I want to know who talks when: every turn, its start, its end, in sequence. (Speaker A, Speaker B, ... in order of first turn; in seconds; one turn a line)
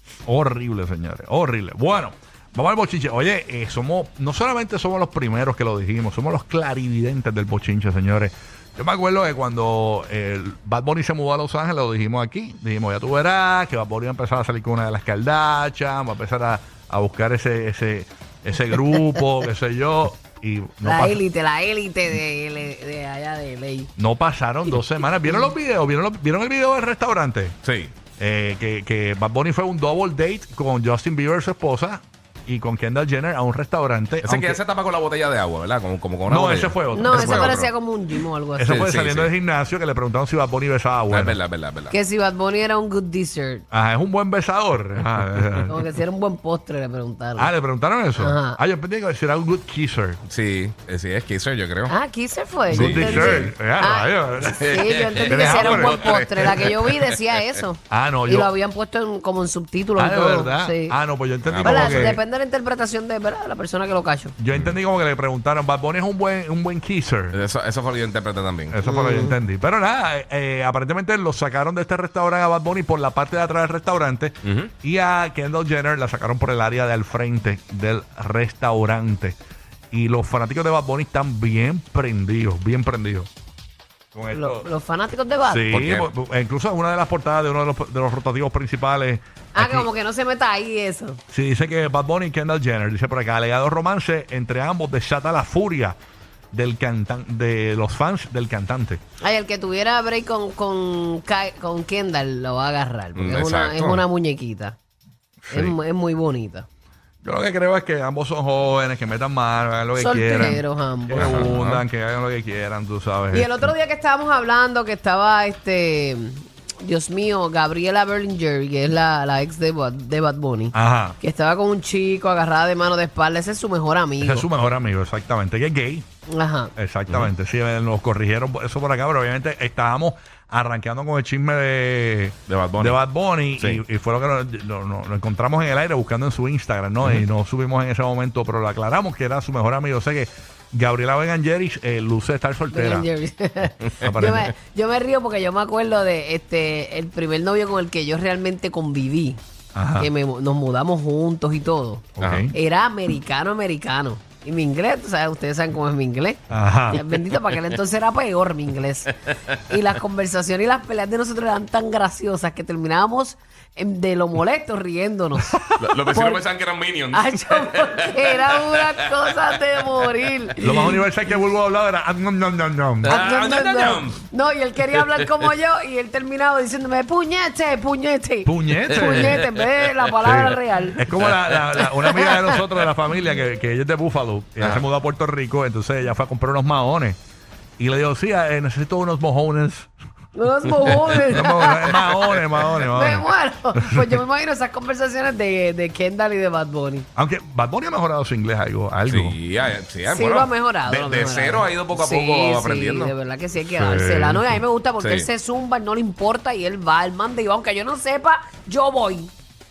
Speaker A: 0.2-21.2
Speaker B: 20.8-23.9
Speaker A: 24.0-27.6
Speaker B: 25.0-25.5
Speaker C: 27.6-27.9
Speaker A: 28.2-34.6
Speaker C: 34.2-37.7
Speaker A: 36.2-37.6
Speaker B: 36.9-38.7
Speaker A: 38.6-41.4
Speaker C: 38.6-39.3
Speaker C: 41.1-42.0
Speaker B: 41.9-43.6
Speaker A: 43.7-45.8
Speaker B: 45.7-47.5
Speaker A: 47.4-50.2
Speaker B: 48.2-48.6
Speaker C: 50.3-51.9
Speaker B: 51.9-61.0
Speaker A: 52.7-56.4
Speaker C: 52.7-53.5
Speaker C: 54.5-57.2
Speaker A: 57.9-58.5
Speaker A: 60.0-62.2
Speaker C: 61.4-62.2
Speaker B: 61.6-64.3
Speaker A: 64.4-67.4
Speaker C: 67.3-68.8
Speaker A: 68.7-79.4
Speaker B: 68.8-69.3
Speaker C: 74.4-74.7
Speaker A: 79.9-83.3
Speaker A: 84.1-84.7
Speaker B: 84.3-85.7
Speaker A: 85.5-89.9
Speaker C: 85.7-86.1
Speaker B: 89.5-91.2
Speaker A: 91.3-96.0
Speaker A: 96.5-99.0
Speaker B: 99.2-104.8
Speaker C: 103.1-104.0
Speaker A: 105.5-105.7
Speaker B: 105.5-106.7
Speaker A: 107.2-113.7
Speaker B: 110.0-111.5
Speaker C: 111.1-111.8
Speaker B: 113.3-124.5
Speaker A: 120.7-121.2
Speaker A: 124.2-126.1
Speaker B: 126.3-126.7
Speaker A: 126.8-143.1
Speaker C: 132.5-133.0
Speaker B: 142.7-149.4
Speaker A: 144.0-144.5
Speaker A: 149.7-150.1
Speaker B: 150.0-159.1
Speaker A: 152.2-152.5
Speaker C: 152.2-152.5
Speaker A: 156.5-157.0
Speaker B: 159.7-165.6
Speaker A: 165.4-166.0
Speaker C: 165.8-168.7
Speaker B: 166.1-166.4
Speaker B: 167.1-171.0
Speaker A: 170.6-173.2
Speaker C: 173.1-174.2
Speaker B: 173.1-181.1
Speaker A: 178.4-179.5
Speaker C: 179.2-179.5
Speaker A: 180.2-187.2
Speaker C: 181.2-181.8
Speaker B: 181.8-182.5
Speaker A: 187.8-189.9
Speaker B: 190.3-192.3
Speaker A: 191.2-194.2
Speaker B: 192.9-197.1
Speaker A: 197.2-199.4
Speaker C: 199.1-203.1
Speaker B: 200.1-209.3
Speaker A: 203.6-204.6
Speaker C: 205.0-205.3